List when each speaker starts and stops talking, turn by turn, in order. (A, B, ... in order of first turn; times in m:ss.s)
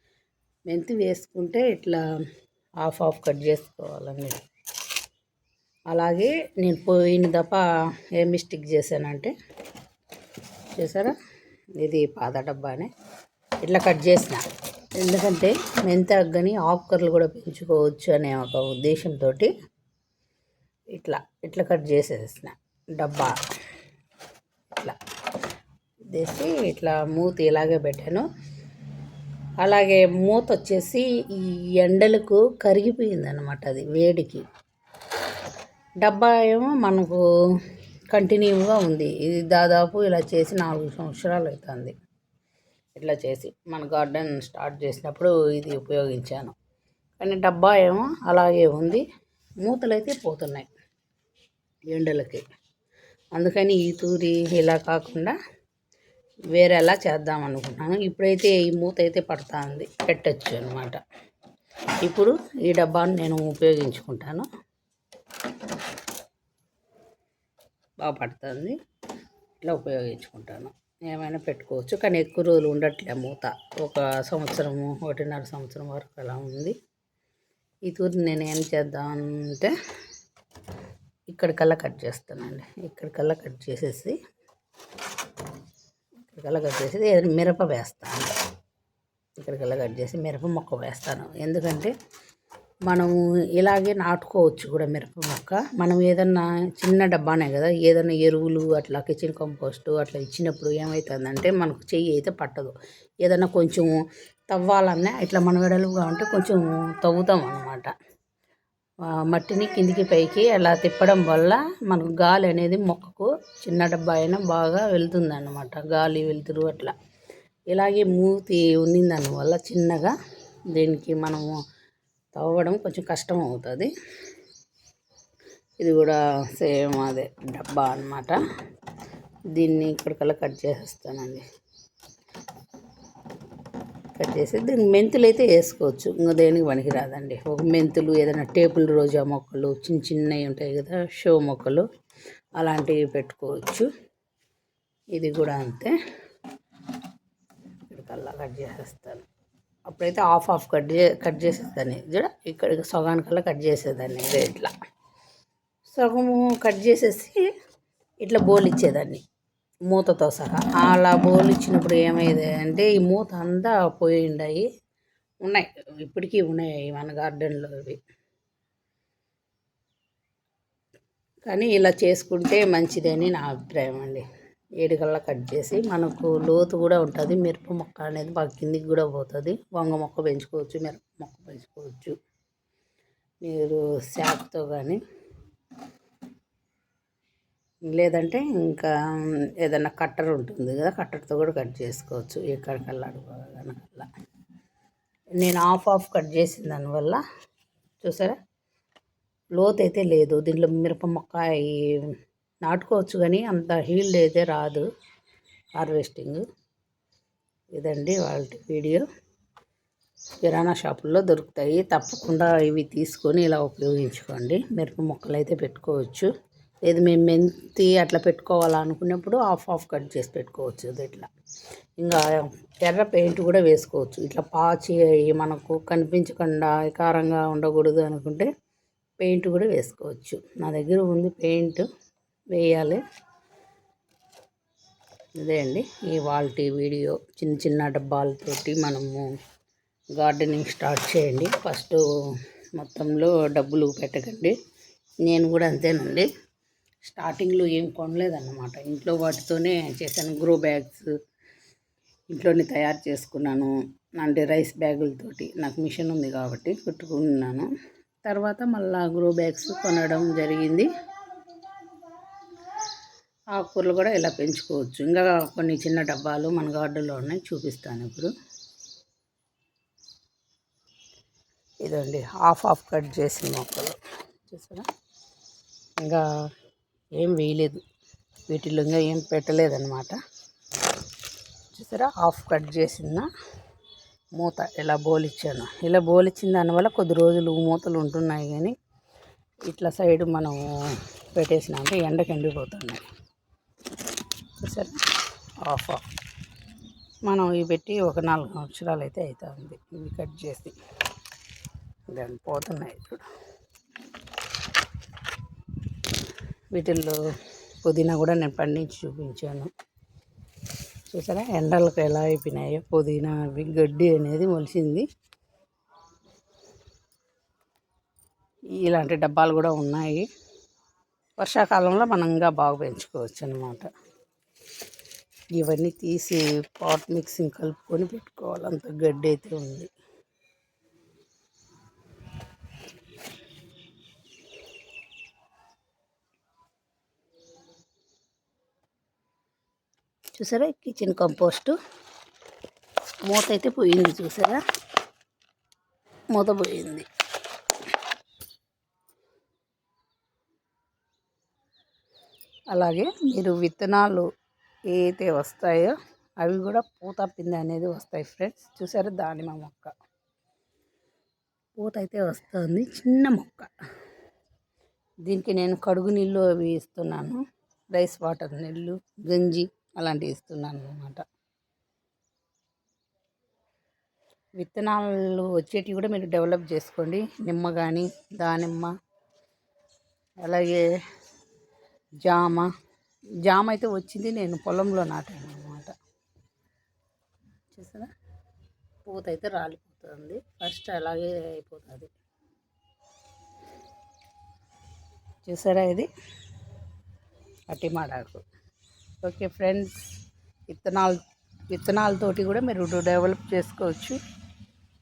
0:00.7-0:02.0 A
0:02.8-0:04.4 A
0:05.9-0:07.6 A
0:08.2-0:09.3 A
0:10.8-0:11.2 A
0:11.8-0:12.9 A
0:13.6-0:14.4 A
0:15.0-0:19.5 A
0:20.9-0:23.4 A
0:26.1-0:28.3 A
0:29.6-0:34.4 A
0:36.0-0:37.2 A
0:38.1-0:41.9 A
0:43.0-0:46.6 A
0:47.2-0:49.0 A
0:49.6-0:50.7 A
0:51.9-0:52.4 A
0:53.4-0:55.4 A
0:56.5-1:01.0 A
1:02.0-1:04.5 A
1:08.0-1:08.8 A
1:09.6-1:16.7 A
1:17.9-1:19.7 A
1:21.3-1:24.2 A
1:26.2-1:28.3 A
1:29.4-1:31.9 A
1:32.9-1:43.9 A
1:44.5-1:47.9 A
1:49.2-1:56.9 A
1:57.7-2:00.2 A
2:00.7-2:01.5 A
2:02.4-2:03.9 A
2:05.8-2:08.4 A
2:09.5-2:11.4 A
2:14.2-2:21.8 A
2:22.6-2:23.9 A
2:25.2-2:25.9 A
2:27.9-2:29.3 A
2:29.9-2:34.7 A
2:36.0-2:37.5 A
2:38.2-2:39.2 A
2:39.9-2:44.7 A
2:45.4-2:48.0 A
2:51.5-2:54.2 A
2:54.8-3:02.2 A
3:03.4-3:05.0 A
3:07.9-3:08.9 A
3:09.6-3:14.1 A
3:15.4-3:17.2 A
3:18.0-3:18.4 A
3:19.5-3:22.1 A
3:22.6-3:24.9 A
3:25.8-3:26.4 A
3:27.8-3:29.0 A
3:30.4-3:36.3 A
3:36.9-3:41.3 A
3:42.0-3:48.5 A
3:49.2-3:51.9 A
3:52.5-3:53.0 A
3:55.4-3:59.3 A
4:00.2-4:02.0 A
4:02.8-4:04.6 A
4:05.2-4:06.3 A
4:07.0-4:11.1 A
4:12.3-4:17.7 A
4:18.3-4:20.9 A
4:23.6-4:28.3 A
4:31.8-4:34.9 A
4:37.2-4:37.8 A
4:38.5-4:40.2 A
4:41.7-4:43.3 A
4:44.4-4:48.8 A
4:49.7-4:53.1 A
4:54.6-4:55.0 A
4:55.6-4:56.0 A
4:57.3-5:00.8 A
5:02.1-5:03.2 A
5:06.7-5:07.2 A
5:07.8-5:09.7 A
5:11.1-5:15.0 A
5:18.8-5:20.3 A
5:21.4-5:23.9 A
5:25.6-5:29.9 A
5:40.4-5:41.8 A
5:43.3-5:44.6 A
5:46.3-5:47.1 A
5:52.7-5:54.3 A
5:54.9-5:59.9 A
6:01.8-6:03.7 A
6:05.3-6:07.4 A
6:07.9-6:11.2 A
6:14.6-6:18.9 A
6:20.4-6:20.8 A
6:22.2-6:22.7 A
6:23.5-6:25.9 A
6:27.7-6:28.1 A
6:29.1-6:32.1 A
6:35.4-6:36.1 A
6:37.7-6:38.4 A
6:39.2-6:39.9 A
6:40.7-6:41.2 A
6:41.7-6:44.2 A